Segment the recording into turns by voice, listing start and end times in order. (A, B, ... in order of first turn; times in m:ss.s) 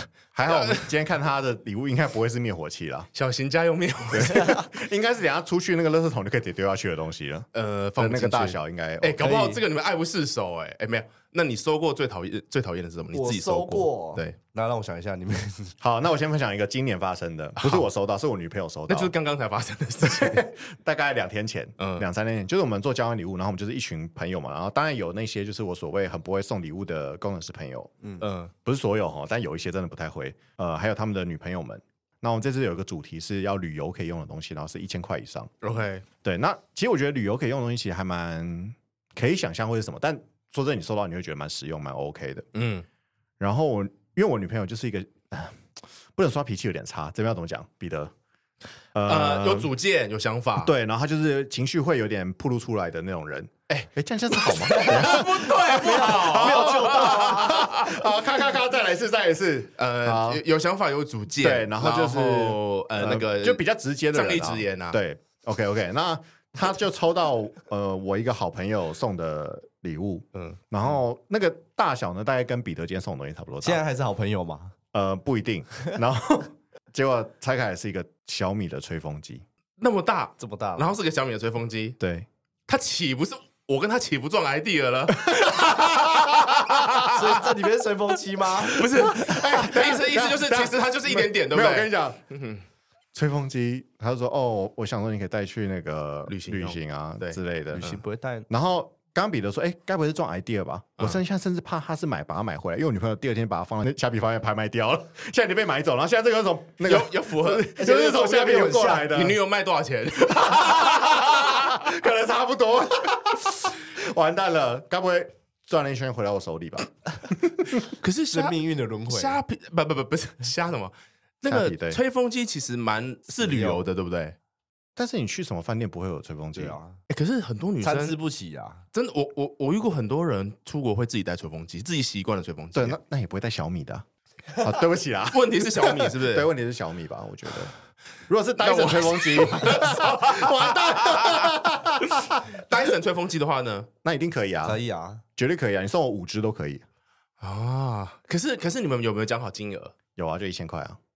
0:00.3-0:03.1 A
0:00.5-0:00.9 B
0:03.2-0:04.6 B
0:04.1-0:09.2 A
0:07.5-0:14.4 B
0:09.2-0:09.6 C
0:13.1-0:15.8 C
0:15.8-0:19.1 A
0:17.6-0:17.9 B
0:18.9-0:20.5 B
0:20.0-0:28.0 A
0:21.8-0:22.1 B
0:28.2-0:28.5 B
0:28.6-0:35.5 A
0:35.6-0:36.0 B
0:36.2-0:42.5 A
0:42.5-0:42.8 B
0:43.4-0:48.1 A
0:48.9-0:49.7 A
0:49.1-0:50.7 B
0:50.6-1:00.4 A
0:53.7-0:58.1 B
0:54.6-0:57.7 C
0:59.8-1:03.6 B
1:01.4-1:13.8 A
1:04.1-1:05.0 B
1:10.4-1:10.6 B
1:13.6-1:14.8 C
1:14.9-1:19.4 A
1:19.8-1:22.0 B
1:20.4-1:20.9 C
1:22.0-1:22.3 A
1:22.7-1:27.4 B
1:25.2-1:26.5 A
1:27.0-1:29.2 C
1:28.6-1:32.6 B
1:29.1-1:32.2 A
1:33.1-1:37.9 A
1:36.3-1:38.0 B
1:37.7-1:38.5 C
1:38.5-1:49.4 A
1:46.8-1:47.7 B
1:47.7-1:49.2 C
1:49.1-1:51.7 B
1:50.4-1:57.9 A
1:57.9-2:04.4 B
1:58.3-1:59.4 C
2:01.4-2:02.0 A
2:03.4-2:03.8 C
2:05.0-2:06.8 A
2:06.6-2:07.0 C
2:07.1-2:08.2 B
2:07.8-2:08.8 C
2:08.9-2:13.0 B
2:12.7-2:14.0 A
2:14.6-2:17.7 A
2:15.3-2:16.5 B
2:18.3-2:22.6 A
2:18.6-2:21.5 B
2:22.1-2:23.9 B
2:24.0-2:24.8 A
2:24.6-2:25.2 C
2:25.4-2:26.8 A
2:27.4-2:30.0 B
2:30.2-2:31.0 A